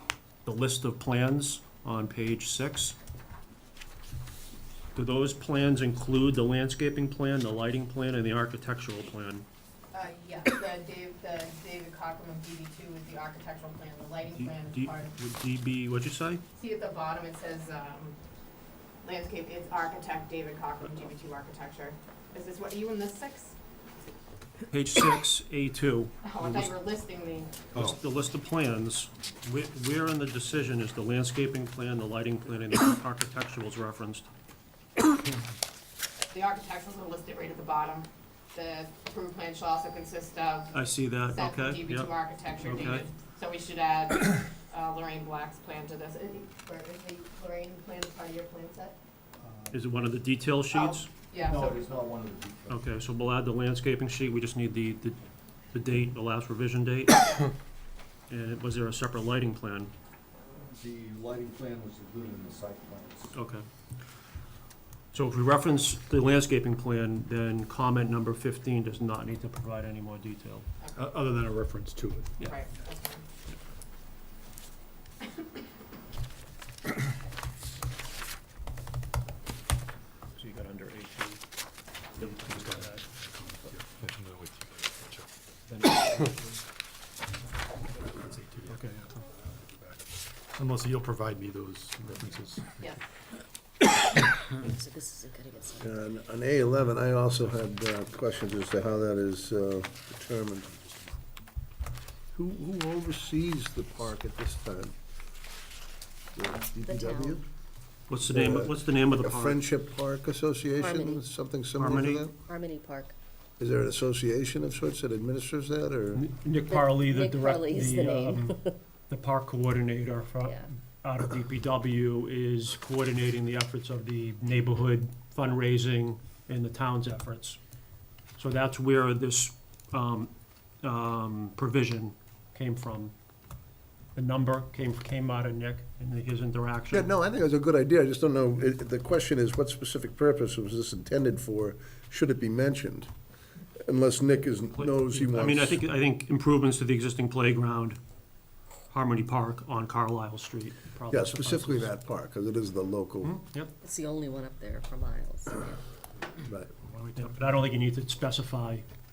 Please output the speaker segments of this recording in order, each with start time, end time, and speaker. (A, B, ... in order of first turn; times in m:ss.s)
0:00.4-0:03.0 A
0:04.9-0:09.5 A
0:09.9-0:15.1 B
0:14.3-0:16.4 A
0:16.6-0:18.2 B
0:19.0-0:23.6 B
0:24.7-0:26.7 A
0:26.2-0:27.6 B
0:27.7-0:34.3 A
0:36.3-0:49.0 B
0:40.7-0:43.1 A
0:49.4-0:49.8 C
0:49.7-0:51.1 A
0:50.7-0:51.8 B
0:51.4-0:52.8 C
0:52.7-0:55.2 A
0:55.7-0:57.5 A
0:58.3-0:59.9 A
1:00.6-1:03.4 C
1:03.3-1:03.7 A
1:05.1-1:10.7 A
1:11.0-1:12.4 D
1:12.4-1:13.2 B
1:20.4-1:21.4 A
1:22.2-1:23.0 A
1:22.2-1:25.3 D
1:25.7-1:26.4 A
1:28.0-1:30.0 D
1:28.7-1:29.0 A
1:30.6-1:32.9 D
1:34.5-1:35.9 E
1:35.8-1:40.8 F
1:42.3-1:45.0 F
1:46.4-1:47.4 F
1:46.8-1:47.4 E
1:48.1-1:49.6 A
1:48.2-1:52.4 F
1:50.8-1:51.2 E
1:51.8-1:52.3 A
1:52.4-1:53.2 E
1:53.6-1:56.2 F
1:56.2-1:58.6 A
1:56.7-1:58.8 E
1:59.1-2:07.6 A
2:00.4-2:00.7 E
2:08.4-2:13.1 A
2:14.2-2:17.1 A
2:16.9-2:23.1 F
2:23.8-2:25.8 F
2:24.7-2:28.0 A
2:28.9-2:31.9 A
2:31.1-2:33.3 F
2:33.2-2:33.7 A
2:33.8-2:35.8 E
2:36.4-2:36.7 F
2:36.8-2:37.6 D
2:37.2-2:38.9 A